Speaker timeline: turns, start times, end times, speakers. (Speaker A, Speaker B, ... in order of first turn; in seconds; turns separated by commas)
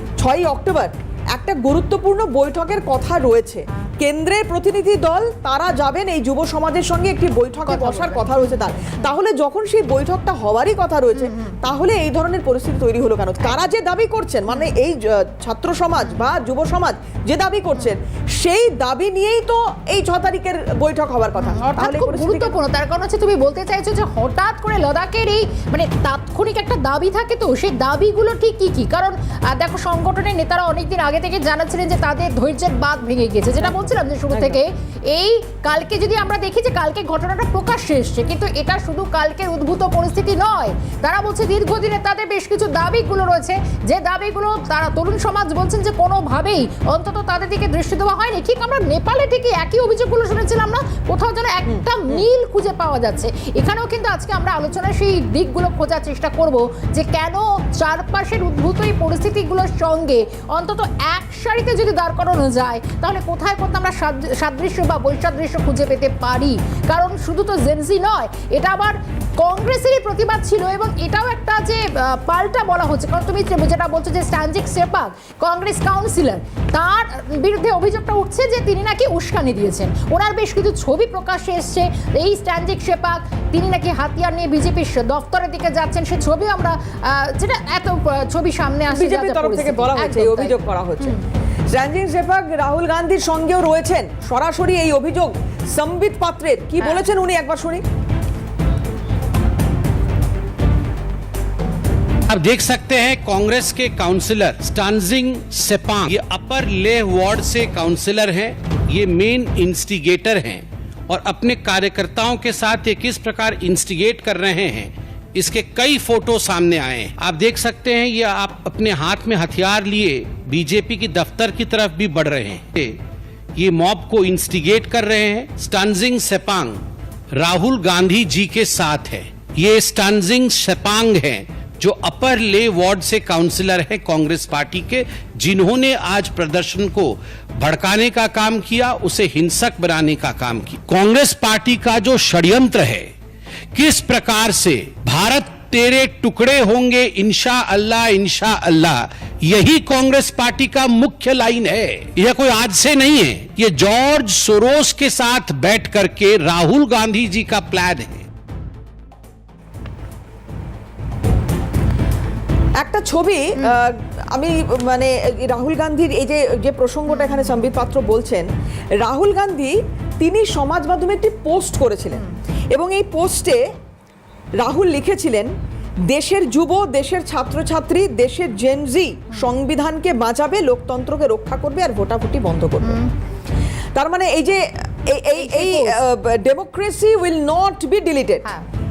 Speaker A: 0.2-22.6, Speaker B: 7.7-9.2, Speaker B: 11.2-11.6, Speaker B: 21.4-91.2, Speaker A: 33.6-34.6, Speaker A: 51.7-52.3, Speaker A: 88.9-91.2, Speaker A: 91.7-97.8, Speaker B: 96.8-97.1, Speaker C: 102.3-123.0, Speaker C: 123.6-126.8, Speaker C: 127.3-143.1, Speaker C: 143.7-158.3, Speaker A: 162.8-173.6, Speaker B: 167.1-167.6, Speaker A: 174.6-175.5, Speaker A: 176.1-183.0, Speaker B: 182.8-183.1, Speaker A: 183.9-188.4, Speaker B: 185.3-186.0